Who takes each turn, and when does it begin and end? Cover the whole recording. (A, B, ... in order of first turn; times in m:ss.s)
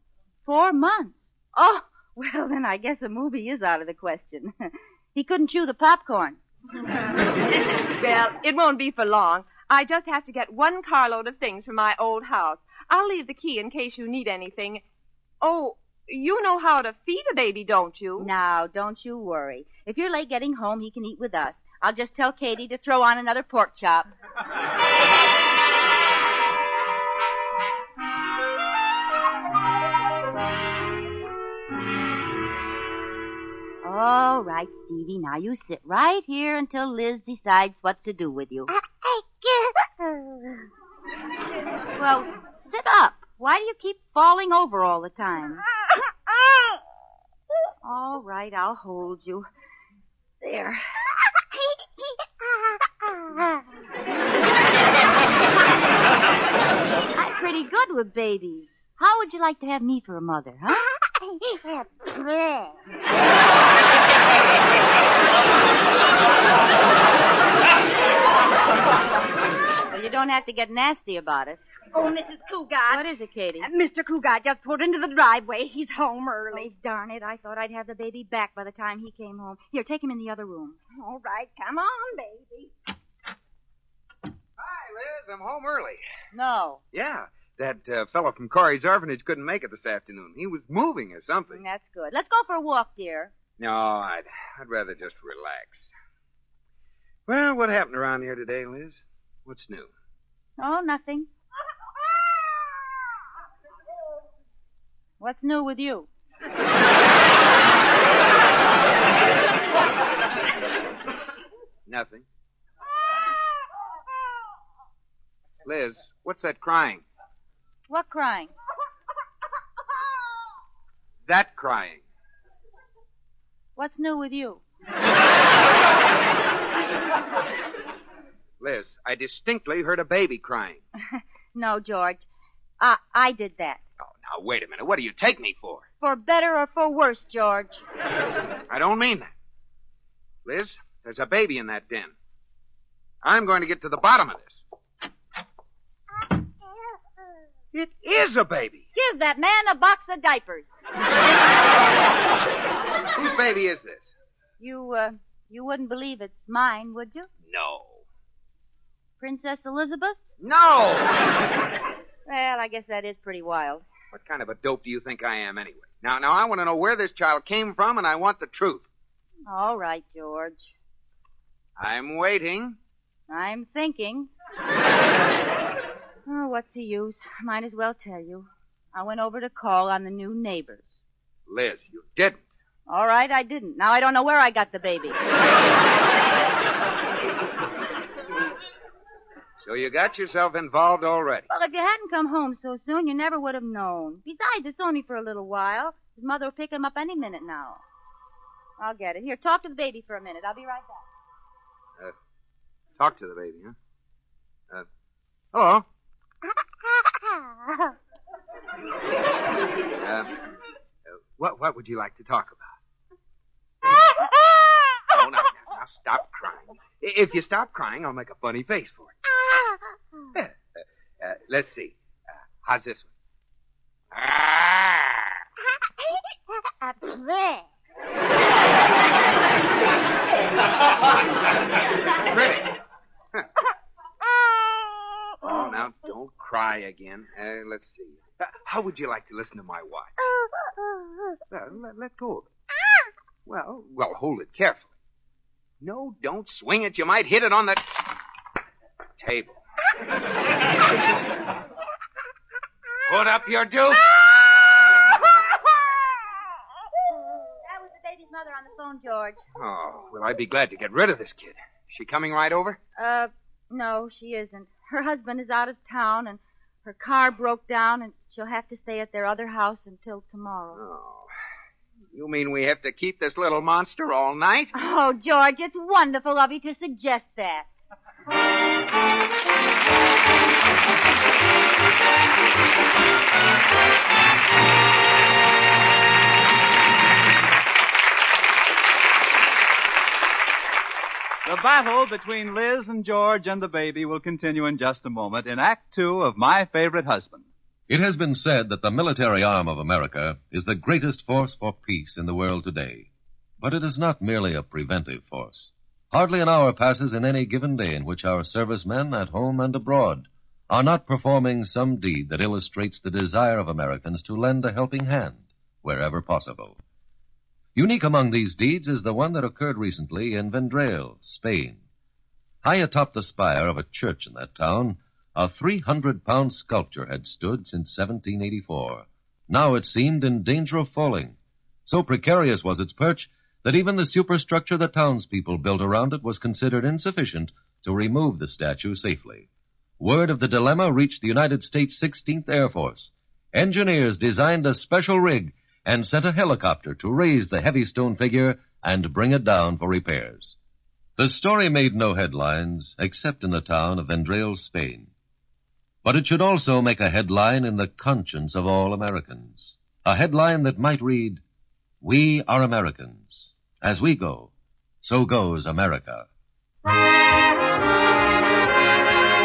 0:00.4-0:06.4 A
0:08.0-0:14.8 B
0:15.4-0:18.3 B
0:18.2-0:24.1 A
0:33.8-0:38.7 A
0:39.0-0:40.5 C
0:42.0-0:45.6 A
0:47.8-0:49.5 A
0:50.4-0:50.8 A
0:57.1-1:00.9 A
1:01.3-1:02.7 C
1:09.9-1:11.6 A
1:11.9-1:13.0 C
1:12.9-1:13.7 A
1:13.6-1:16.7 C
1:16.5-1:20.8 A
1:20.9-1:22.7 C
1:24.6-1:26.0 D
1:26.3-1:26.8 A
1:26.9-1:31.6 D
1:31.5-1:33.3 A
1:33.6-1:35.9 D
1:37.3-1:39.9 D
1:40.6-1:41.3 A
1:45.2-1:46.1 A
1:51.9-1:52.2 D
1:55.6-1:57.0 D
1:57.9-1:58.5 A
2:01.3-2:02.0 D
2:03.8-2:04.6 A
2:08.6-2:10.8 D
2:11.1-2:12.3 A
2:12.8-2:13.8 A
2:14.0-2:15.8 D
2:16.0-2:17.8 A
2:18.7-2:19.3 D
2:20.4-2:22.1 D
2:23.2-2:24.6 D
2:27.7-2:28.8 D
2:28.9-2:30.7 A
2:33.1-2:34.1 D
2:34.6-2:37.3 A
2:37.4-2:38.0 D
2:39.2-2:40.3 A
2:40.4-2:41.2 D
2:42.3-2:43.8 A
2:44.1-2:48.9 D
2:49.5-2:50.7 A
2:51.8-2:52.8 D
2:53.3-2:54.3 A
2:56.2-3:00.9 A
3:01.5-3:02.4 D
3:02.9-3:05.2 A
3:09.6-3:11.5 D
3:11.5-3:17.8 A
3:18.8-3:21.0 A
3:23.0-3:23.7 D
3:25.5-3:25.8 D
3:30.0-3:30.4 D
3:31.4-3:32.7 D
3:35.1-3:39.1 D
3:41.2-3:42.0 D
3:42.6-3:43.1 D
3:44.1-3:45.3 D
3:46.8-3:47.6 C
3:52.2-3:52.7 D
3:55.4-4:00.1 D
4:01.5-4:02.5 D
4:03.4-4:04.9 D
4:05.8-4:08.1 D
4:09.2-4:09.6 D
4:13.0-4:14.2 D
4:17.6-4:19.4 A
4:19.6-4:22.8 D
4:23.0-4:30.8 A
4:30.7-4:31.3 D
4:32.1-4:34.7 D
4:34.7-4:37.7 A
4:51.4-4:57.5 E
4:57.9-5:16.8 F
5:17.7-5:21.8 F
5:22.6-5:39.5 F
5:40.0-5:50.6 F
5:51.2-5:55.1 F
5:56.0-6:01.4 F
6:02.0-6:04.5 F
6:05.0-6:06.3 F